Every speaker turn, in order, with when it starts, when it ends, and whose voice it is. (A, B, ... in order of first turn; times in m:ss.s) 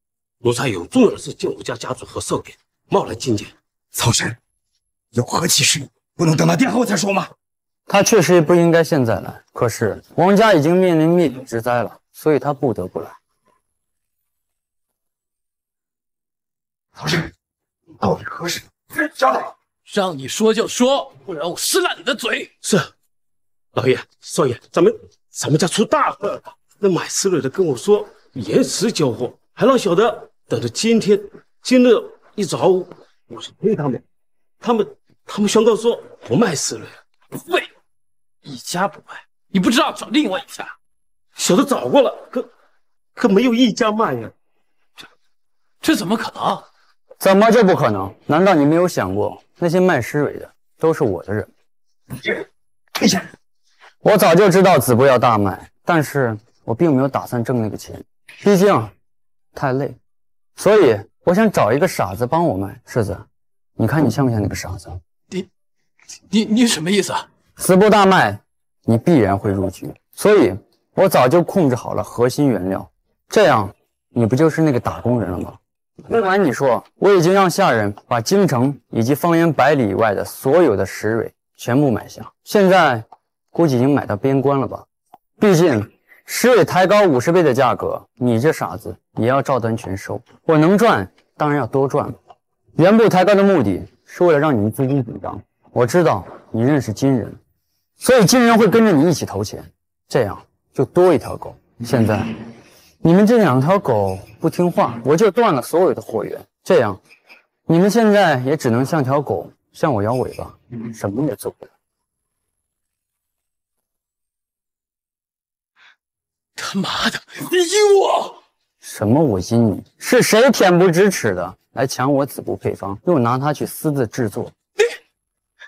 0:00.4-0:03.5 A
0:04.0-0:04.4 B
0:05.1-0:07.3 B
0:07.9-0:13.2 C
0:18.0-0:18.6 A
0:19.9-0:22.5 D
0:22.6-0:22.9 A
0:23.7-0:34.0 A
0:34.6-0:37.0 A
0:38.6-0:39.1 A
0:39.5-0:40.7 D
0:41.4-0:42.5 A
0:43.2-0:44.3 A
0:45.8-0:46.7 D
0:47.2-0:51.5 C
0:54.0-0:58.9 C
0:59.6-1:00.0 C
1:00.6-1:03.2 C
1:03.8-1:05.0 C
1:06.3-1:07.3 D
1:07.6-1:24.8 C
1:25.4-1:32.2 C
1:32.8-1:37.4 C
1:38.0-1:42.4 C
1:43.0-1:47.0 C
1:47.7-1:51.7 C
1:56.6-1:58.3 D
1:58.8-2:04.5 C